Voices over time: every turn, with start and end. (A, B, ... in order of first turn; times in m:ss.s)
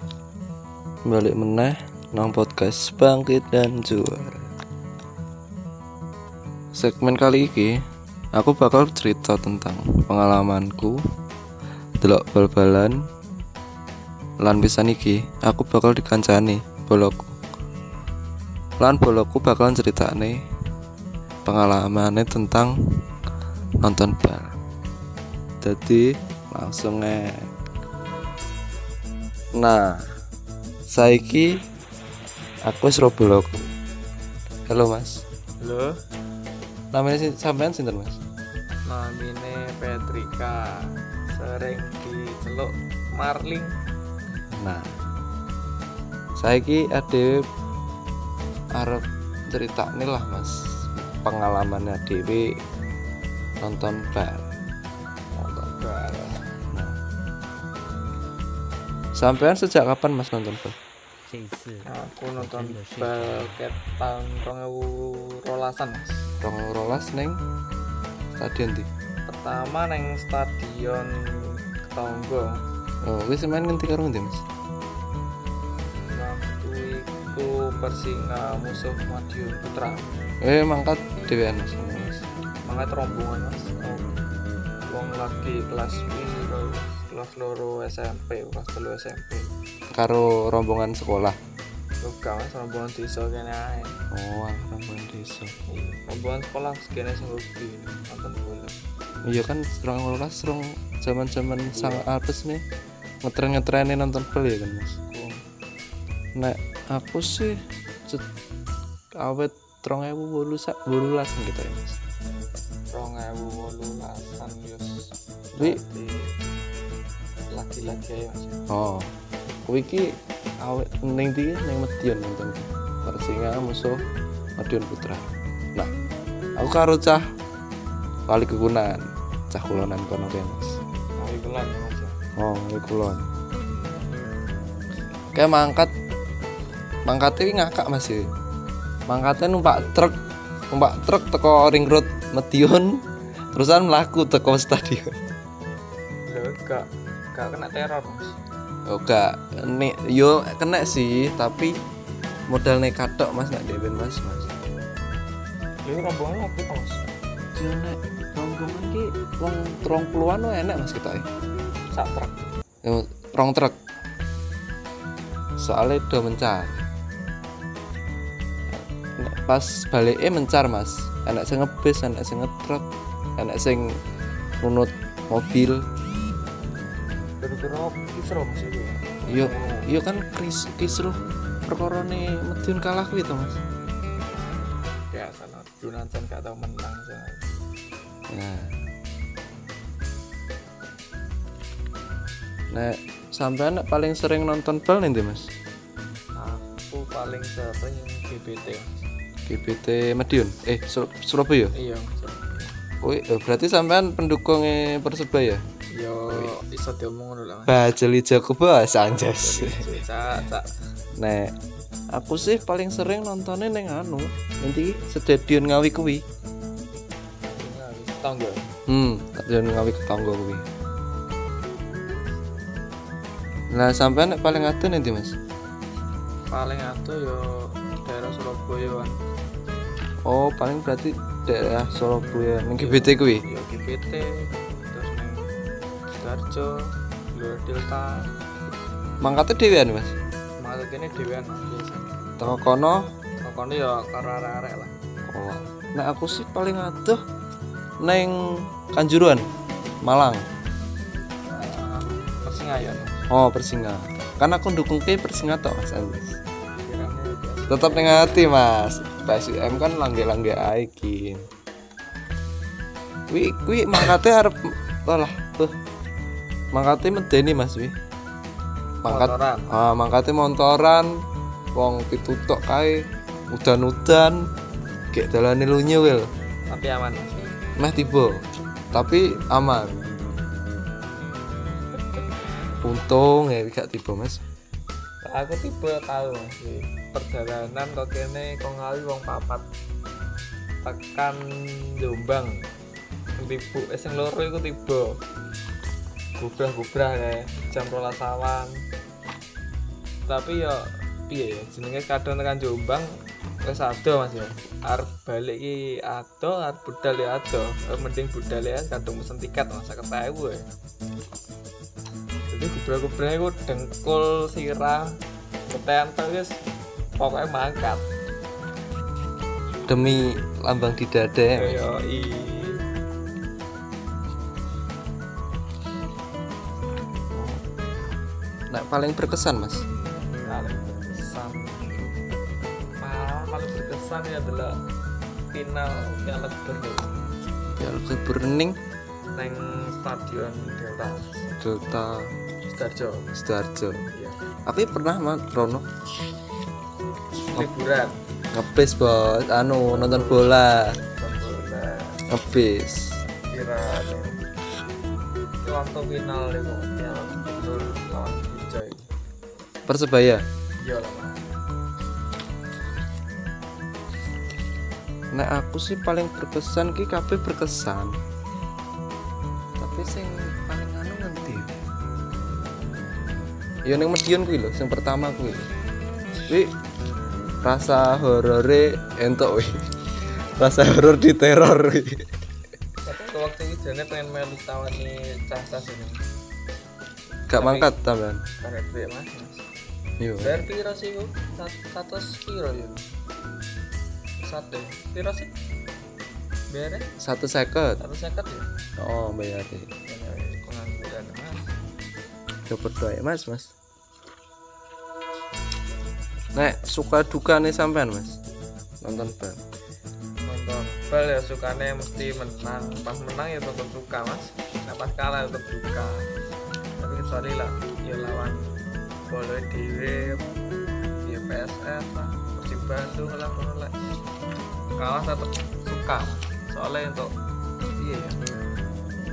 0:01.0-0:04.5 A
0:06.7-0:07.7 A
0:08.4-0:11.0 A
0:12.0-0:12.9 A
0:14.4-0:17.4 A
0:18.8-0:20.4 A
0:21.4-0:22.7 A
0:23.8-0:24.5 A
0:25.6-0:27.4 A
0:29.6-0:30.0 A
0:30.9-0:31.6 A
0:32.7-0:33.7 A
0:34.7-0:35.2 A
0:35.6-0:35.9 B
0:36.9-0:38.2 A
0:38.8-0:43.7 B
0:44.5-0:44.9 A
0:46.4-0:47.4 A
0:48.7-0:52.5 A
0:53.6-0:54.4 A
0:55.3-0:56.4 B
0:56.7-0:57.0 A
0:59.2-1:00.8 A
1:01.8-1:06.2 B
1:06.4-1:07.4 A
1:08.4-1:08.9 A
1:09.3-1:12.6 B
1:13.0-1:14.4 A
1:16.1-1:20.1 B
1:20.4-1:22.2 A
1:22.6-1:24.1 B
1:24.9-1:29.5 B
1:29.9-1:31.4 A
1:32.0-1:33.9 B
1:34.1-1:35.5 A
1:35.7-1:38.8 B
1:39.3-1:42.6 A
1:41.6-1:42.1 B
1:43.2-1:45.0 A
1:45.1-1:45.4 B
1:46.4-1:48.2 A
1:49.2-1:52.0 A
1:52.9-1:55.0 B
1:55.6-1:56.3 B
1:57.5-1:58.6 B
1:58.7-1:59.1 A
1:59.7-2:00.1 A
2:00.6-2:04.0 A
2:04.6-2:05.9 A
2:06.6-2:07.2 A
2:08.3-2:10.8 A
2:11.2-2:12.2 B
2:12.4-2:13.2 A
2:15.3-2:15.9 A
2:17.0-2:18.2 A
2:19.1-2:20.2 A
2:20.7-2:25.1 A
2:26.2-2:28.3 B
2:28.9-2:31.7 A
2:32.5-2:34.5 A
2:35.8-2:37.0 B
2:37.5-2:41.2 A
2:41.9-2:42.4 B
2:42.8-2:43.8 A
2:45.6-2:46.8 A
2:48.7-2:52.8 A
2:53.4-2:54.0 A
2:54.6-2:55.8 A
2:57.4-2:59.9 B
2:59.3-3:03.6 A
3:05.1-3:07.4 B
3:08.3-3:08.8 A
3:12.7-3:15.5 A
3:16.4-3:18.9 B
3:19.5-3:21.7 A
3:21.7-3:22.8 B
3:23.0-3:25.6 A
3:25.9-3:27.8 B
3:26.3-3:26.5 A
3:27.7-3:30.0 A
3:29.1-3:30.7 B
3:31.2-3:31.5 A
3:32.1-3:36.2 A
3:37.4-3:38.7 B
3:38.9-3:40.6 A
3:43.7-3:45.4 A
3:46.5-3:49.1 B
3:50.2-3:53.4 A
3:52.8-3:55.5 B
3:56.2-3:56.8 B
3:57.3-3:58.3 B
3:59.2-4:00.1 A
4:00.6-4:02.2 B
4:02.4-4:03.0 A
4:03.4-4:04.9 B
4:05.3-4:07.2 A
4:08.0-4:09.4 A
4:10.0-4:10.4 A
4:11.5-4:13.2 B
4:13.3-4:16.4 A
4:16.8-4:18.5 B
4:17.7-4:21.5 A
4:23.3-4:25.7 A
4:26.7-4:27.9 A
4:29.0-4:31.1 A
4:29.0-4:29.7 B
4:31.7-4:34.4 A
4:35.1-4:36.3 A
4:36.7-4:37.5 B
4:37.8-4:38.4 A
4:38.9-4:40.0 A
4:42.8-4:44.4 A
4:45.2-4:49.6 B
4:50.8-4:51.4 B
4:52.0-4:52.6 B
4:53.4-4:55.2 B
4:56.4-4:58.7 B
5:00.3-5:03.1 B
5:03.6-5:10.6 B
5:12.5-5:15.1 B
5:15.7-5:16.6 B
5:17.2-5:18.1 B
5:19.9-5:21.8 A
5:21.5-5:22.8 B
5:27.3-5:27.6 A
5:28.7-5:29.8 A
5:30.4-5:32.1 B
5:33.0-5:34.8 B
5:35.5-5:37.1 B
5:37.8-5:38.8 A
5:39.4-5:41.4 B
5:41.6-5:42.3 A
5:42.6-5:43.3 B
5:43.3-5:44.0 A
5:44.1-5:44.4 B
5:44.6-5:45.8 A
5:47.5-5:48.2 B
5:48.5-5:51.0 A
5:49.8-5:52.2 B
5:52.3-5:53.2 A
5:53.5-5:54.4 B
5:55.6-5:59.0 B
5:59.9-6:00.4 A
6:00.8-6:01.5 B
6:05.3-6:08.2 A
6:09.8-6:11.7 A
6:13.8-6:15.7 A
6:16.5-6:16.7 A
6:17.6-6:19.8 A
6:20.6-6:22.2 A
6:23.0-6:26.2 B
6:27.5-6:28.4 A
6:27.5-6:27.9 B
6:28.6-6:29.6 B
6:30.2-6:30.7 A
6:30.4-6:33.0 B
6:34.4-6:35.5 B
6:36.7-6:37.1 B
6:37.2-6:38.0 A
6:38.0-6:38.7 B
6:39.0-6:39.9 A
6:40.0-6:41.7 B
6:42.7-6:43.7 A
6:46.5-6:48.4 A
6:49.0-6:49.6 A
6:50.4-6:56.3 B
6:57.0-6:58.7 B
6:59.3-7:00.4 B
7:01.2-7:03.9 B
7:05.0-7:07.3 B
7:08.0-7:08.4 B